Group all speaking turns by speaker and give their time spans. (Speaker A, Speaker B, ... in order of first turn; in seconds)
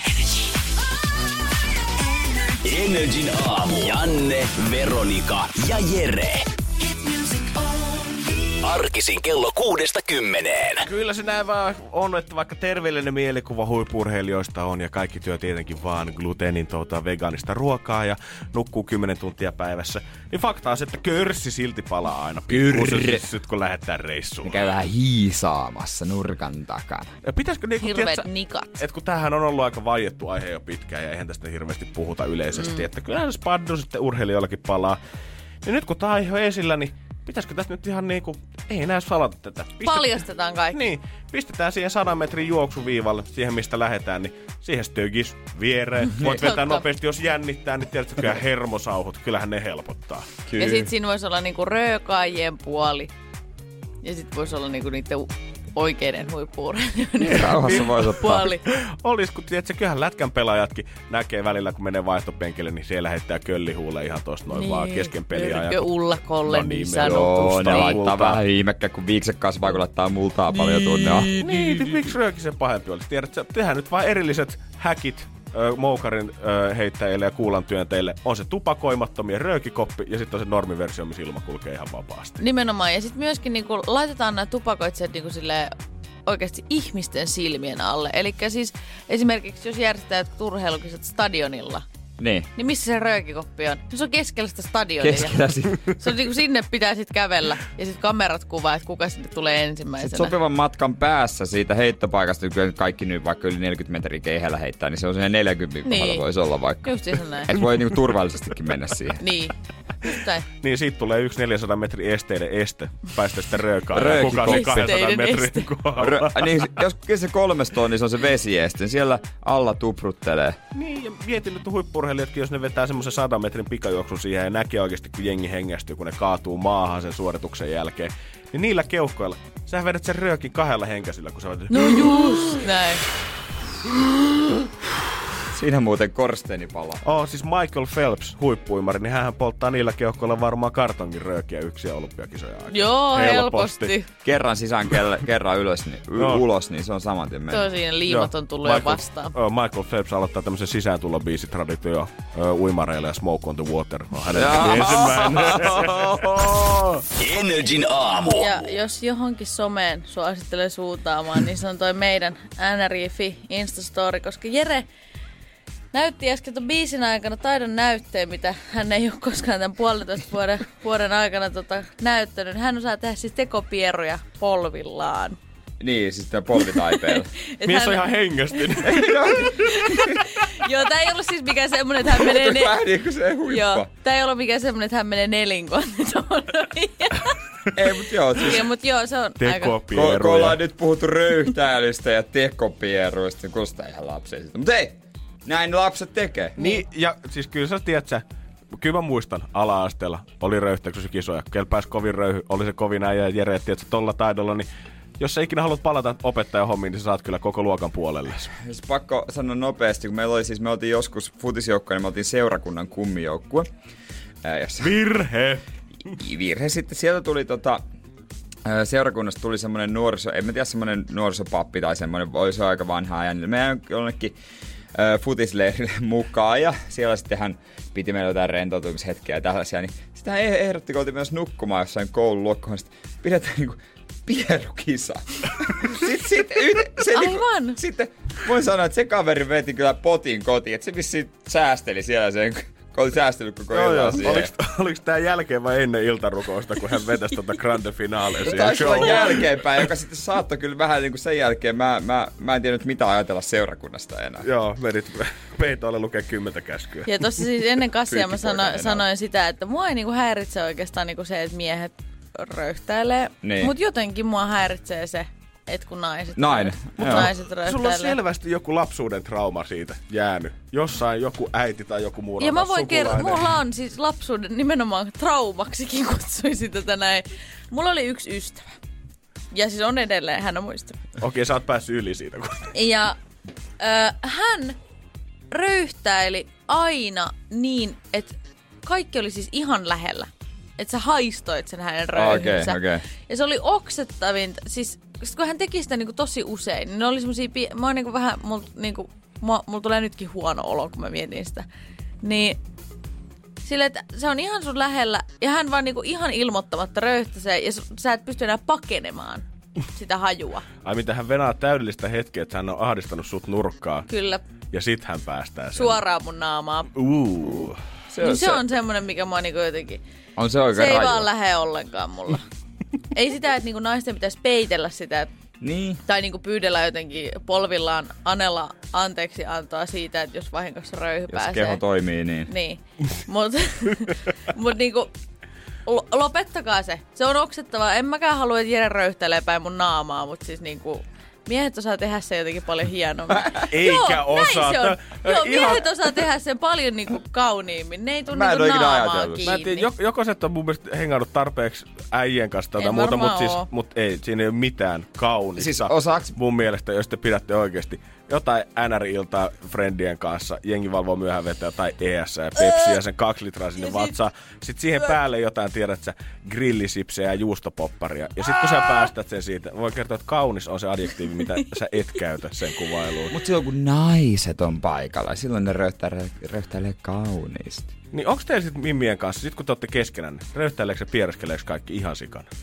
Speaker A: 2.6-6.5, 8.6-10.8, 157.2-158.4
Speaker B: 10.8-24.6, 27.2-28.3, 28.8-35.0, 35.6-40.2, 40.7-50.3, 58.5-68.4, 71.3-82.4, 110.6-116.8, 120.7-132.1, 137.0-143.9, 146.2-146.4, 148.1-157.0, 177.6-179.6, 189.4-190.6, 196.6-198.2, 198.8-204.7, 205.2-208.5, 214.8-215.6, 243.7-249.4, 254.4-257.2, 267.0-273.6, 281.2-282.7, 310.8-314.1, 314.7-316.0, 316.9-317.8, 343.7-345.9, 349.4-373.3, 378.1-382.5
Speaker C: 22.5-23.2, 24.4-27.1, 50.5-50.9, 57.2-58.5, 67.0-71.3, 92.2-92.5, 95.0-95.8, 100.0-109.2, 113.9-115.0, 116.0-120.6, 135.5-137.0, 144.2-147.7, 154.3-156.6, 175.8-177.3, 178.8-180.2, 182.1-183.9, 187.7-188.7, 189.9-196.6, 208.6-213.7, 214.4-214.9, 216.2-217.8, 218.6-224.3, 224.9-244.5, 248.4-254.4, 258.1-259.1, 263.4-263.7, 266.4-267.3, 292.1-293.0, 317.5-318.6, 320.4-321.3, 325.6-326.0, 331.3-332.5, 348.3-349.5, 355.6-356.4, 373.3-377.9
Speaker D: 27.8-28.8, 32.5-32.8, 39.8-40.8, 46.2-46.8, 50.6-53.1, 54.0-58.6, 64.5-68.0, 70.6-71.5, 82.4-85.7, 86.2-91.8, 92.5-100.3, 105.8-106.3, 106.8-107.6, 109.2-110.5, 114.3-115.7, 131.7-133.0, 142.7-144.1, 147.5-149.3, 158.3-164.9, 165.9-175.4, 176.7-179.0, 179.6-182.8, 183.5-187.3, 188.3-189.8, 196.6-196.8, 237.1-237.8, 257.1-268.1, 272.4-278.6, 279.5-281.0, 282.7-283.2, 283.8-284.8, 285.5-301.6, 302.2-302.6, 303.6-310.6, 314.1-314.4, 315.7-316.9, 318.2-320.0, 320.7-322.4, 323.1-325.3, 326.0-331.8, 332.5-335.1, 335.9-349.9, 352.8-353.6, 362.7-362.9